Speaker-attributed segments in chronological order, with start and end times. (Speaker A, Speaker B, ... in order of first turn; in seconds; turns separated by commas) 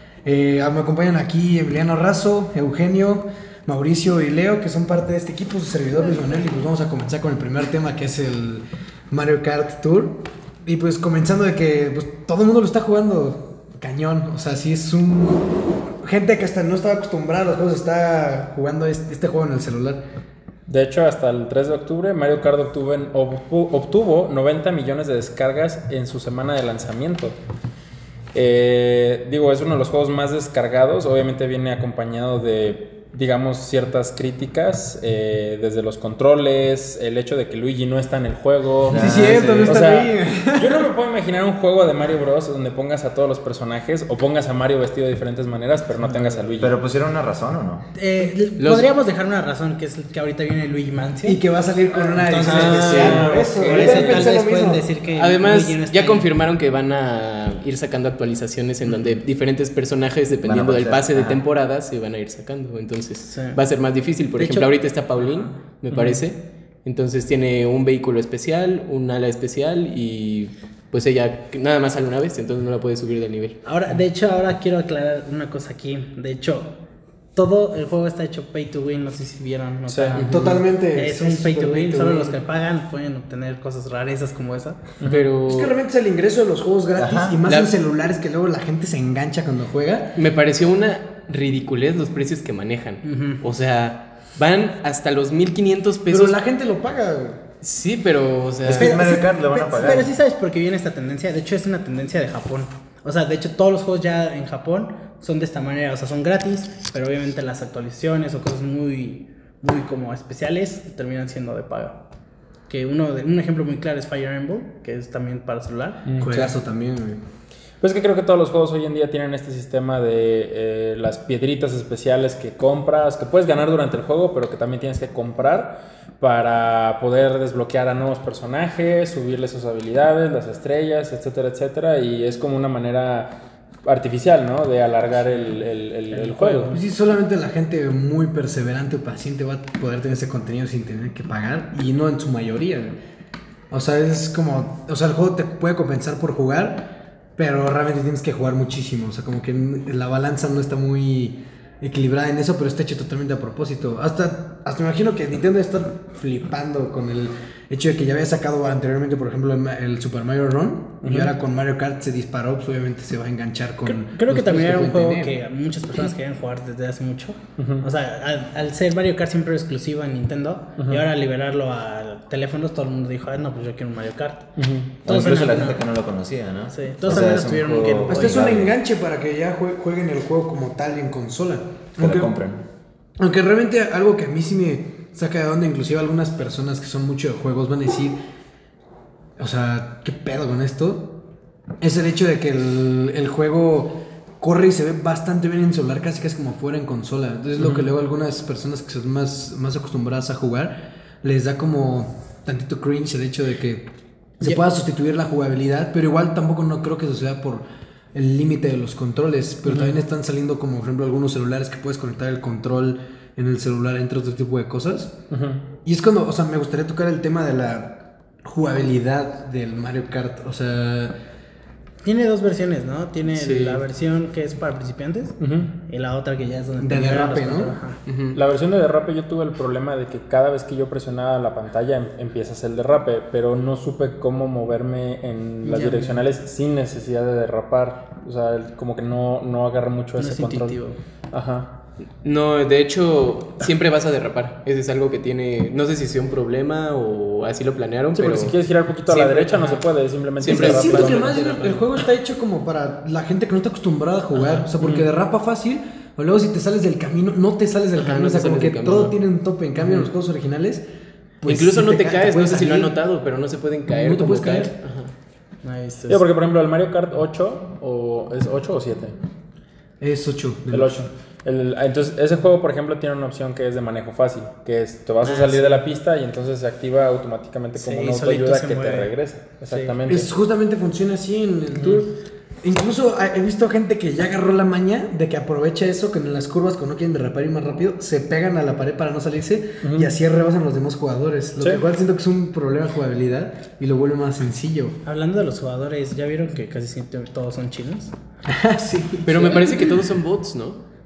Speaker A: 0.2-20.0, Speaker B: 20.7-27.4, Speaker B: 28.3-46.8, Speaker C: 38.9-39.9, Speaker A: 38.9-40.9, Speaker D: 46.0-46.4, Speaker C: 46.6-47.9, Speaker D: 47.9-51.4, Speaker E: 48.6-48.9, Speaker A: 51.2-54.9, Speaker D: 52.0-56.3, Speaker B: 52.4-54.3, Speaker E: 52.5-53.3, Speaker E: 55.1-73.6, Speaker C: 60.4-61.4, Speaker D: 63.3-63.6, Speaker D: 64.4-64.7, Speaker B: 65.9-66.2, Speaker D: 73.6-76.7, Speaker D: 77.3-84.8, Speaker B: 79.9-80.2, Speaker E: 80.2-80.6, Speaker A: 80.2-82.4, Speaker E: 85.0-85.7, Speaker A: 85.5-90.2, Speaker C: 87.0-87.4, Speaker E: 90.2-96.4, Speaker D: 93.0-93.4, Speaker A: 96.1-97.4, Speaker E: 97.6-99.0, Speaker C: 98.6-100.1, Speaker D: 98.7-112.0, Speaker A: 98.8-100.0, Speaker D: 112.7-116.5, Speaker B: 116.1-116.3, Speaker A: 116.2-117.2, Speaker B: 117.8-136.8, Speaker A: 136.4-143.0, Speaker A: 143.7-165.3, Speaker B: 161.0-161.3, Speaker D: 163.8-174.5, Speaker B: 167.6-167.9, Speaker B: 170.8-171.0, Speaker B: 174.6-174.9, Speaker D: 175.0-175.8, Speaker C: 175.0-178.7, Speaker D: 176.7-178.5, Speaker A: 178.1-182.3, Speaker C: 182.0-182.6, Speaker A: 183.2-188.2, Speaker A: 189.4-191.2, Speaker A: 191.8-203.9, Speaker A: 204.4-215.1, Speaker B: 209.7-209.9, Speaker B: 215.3-215.6, Speaker A: 215.8-221.1, Speaker D: 222.0-225.3, Speaker E: 223.3-223.8, Speaker B: 225.4-225.7, Speaker D: 225.9-228.0, Speaker A: 226.8-228.4, Speaker B: 228.3-240.8, Speaker A: 235.7-236.1, Speaker D: 240.2-241.0, Speaker B: 241.3-241.7, Speaker E: 242.2-248.5, Speaker B: 248.1-251.4, Speaker E: 249.1-249.8, Speaker E: 250.4-251.9, Speaker A: 250.4-260.8, Speaker B: 254.8-255.1, Speaker E: 257.9-259.1, Speaker E: 259.8-260.1, Speaker A: 261.4-263.0, Speaker E: 261.4-265.1, Speaker A: 263.9-264.7, Speaker D: 265.6-266.2, Speaker B: 266.1-269.1, Speaker A: 270.0-271.1, Speaker B: 270.7-280.3, Speaker D: 275.2-275.8, Speaker D: 277.7-279.1, Speaker A: 280.1-295.0, Speaker B: 281.8-282.0, Speaker B: 289.8-290.1, Speaker D: 295.0-298.1, Speaker A: 298.4-300.0, Speaker E: 299.2-300.8